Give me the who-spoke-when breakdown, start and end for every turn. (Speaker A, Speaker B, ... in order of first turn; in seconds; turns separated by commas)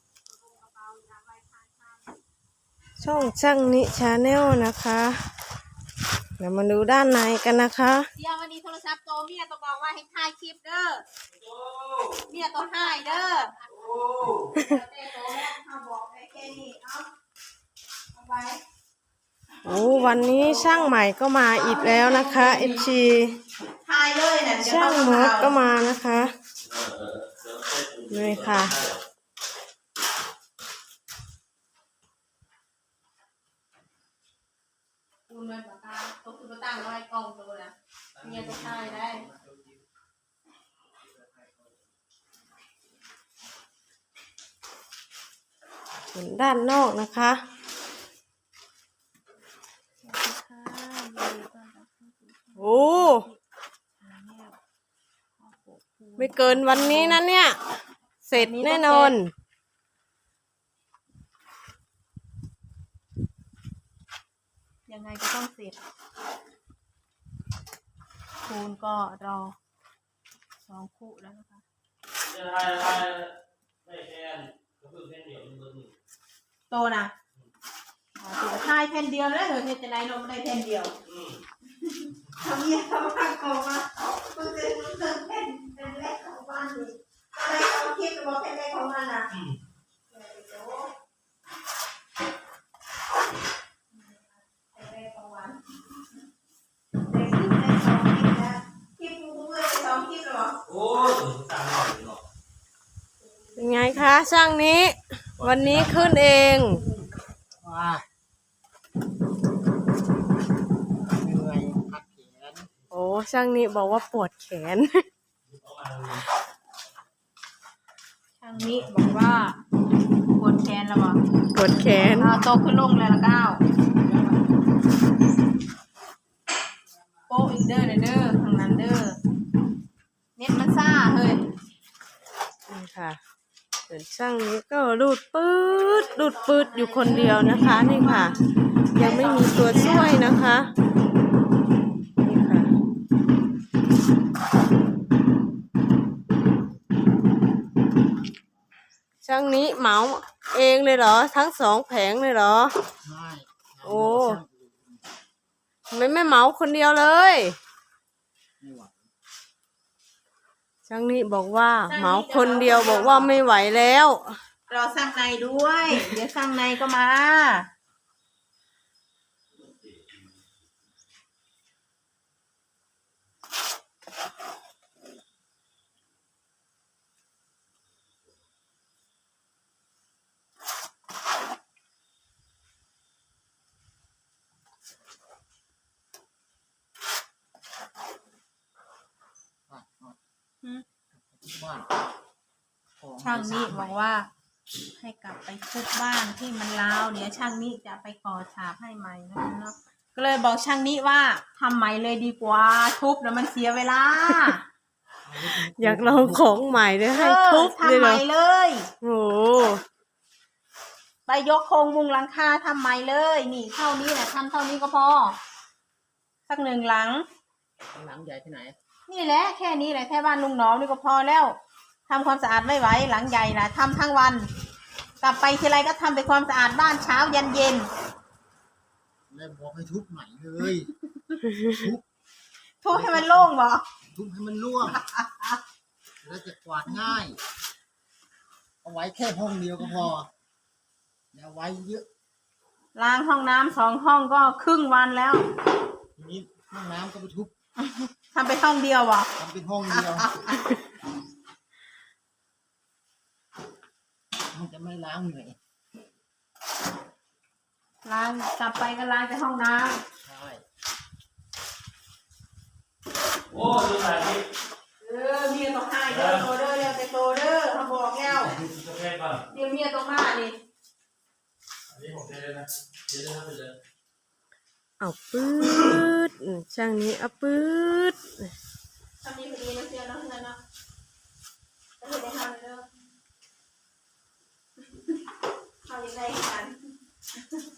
Speaker A: 0.3-2.2, Speaker B: 3.0-5.2, Speaker B: 6.4-8.1, Speaker A: 8.2-11.1, Speaker C: 11.3-12.3, Speaker A: 12.3-13.6, Speaker C: 13.7-14.5, Speaker A: 14.5-17.1, Speaker A: 18.1-18.6, Speaker A: 19.6-21.0, Speaker B: 19.6-23.4, Speaker A: 21.5-22.9, Speaker A: 23.8-25.6, Speaker B: 24.6-26.3, Speaker C: 26.7-29.0, Speaker B: 28.1-28.8, Speaker A: 35.3-39.3, Speaker B: 46.1-47.4, Speaker A: 50.0-53.4, Speaker B: 52.6-53.2, Speaker A: 54.0-54.6, Speaker A: 55.4-57.2, Speaker B: 56.2-57.6, Speaker B: 58.2-59.3, Speaker A: 58.3-59.1, Speaker A: 64.9-65.8, Speaker A: 68.4-69.5, Speaker A: 70.6-71.6, Speaker C: 72.3-76.0, Speaker A: 76.7-77.1, Speaker A: 78.2-80.9, Speaker C: 81.1-81.4, Speaker A: 81.9-89.3, Speaker A: 90.1-90.9, Speaker A: 93.9-95.8, Speaker A: 97.0-100.6, Speaker C: 100.7-102.2, Speaker B: 103.6-106.8, Speaker C: 105.4-106.3, Speaker D: 107.6-108.0, Speaker D: 111.1-112.7, Speaker B: 112.9-115.0, Speaker C: 115.5-116.2, Speaker A: 118.4-119.6, Speaker A: 120.3-121.2, Speaker B: 121.5-122.4, Speaker A: 121.8-123.6, Speaker A: 127.3-129.2, Speaker A: 130.4-131.4, Speaker B: 132.7-133.2, Speaker B: 133.9-138.4, Speaker A: 135.6-138.4, Speaker A: 138.9-140.2, Speaker B: 138.9-140.7, Speaker B: 142.2-142.7, Speaker B: 149.2-152.7, Speaker D: 153.0-155.0, Speaker B: 153.8-154.4, Speaker B: 155.9-157.6, Speaker D: 158.6-159.0, Speaker B: 160.9-164.4, Speaker A: 161.9-163.3, Speaker A: 164.7-167.7, Speaker D: 189.7-190.2, Speaker D: 191.1-191.9, Speaker D: 193.0-193.9, Speaker A: 193.2-194.3, Speaker A: 195.0-204.6, Speaker D: 205.3-206.8, Speaker B: 205.6-208.2, Speaker A: 207.1-208.9, Speaker B: 209.0-209.8, Speaker A: 211.3-215.4, Speaker A: 216.5-217.3, Speaker D: 217.9-218.8, Speaker A: 219.1-224.5, Speaker A: 225.2-227.9, Speaker D: 229.3-230.9, Speaker D: 231.7-232.1, Speaker A: 232.8-233.8, Speaker D: 232.9-233.5, Speaker D: 234.1-235.0, Speaker A: 235.1-235.6, Speaker D: 236.2-237.4, Speaker D: 238.8-240.3, Speaker D: 241.3-242.1, Speaker A: 242.9-245.5, Speaker D: 246.2-247.5, Speaker A: 247.8-249.3, Speaker D: 249.4-250.3, Speaker A: 250.0-250.5, Speaker D: 254.5-255.6, Speaker A: 258.0-260.0, Speaker D: 260.2-260.6, Speaker C: 263.5-264.5, Speaker A: 265.0-268.6, Speaker C: 266.1-266.5, Speaker C: 268.3-269.4, Speaker A: 269.5-270.6, Speaker C: 271.9-273.8, Speaker B: 275.0-278.5, Speaker A: 279.2-280.6, Speaker A: 282.0-282.9, Speaker A: 285.8-286.8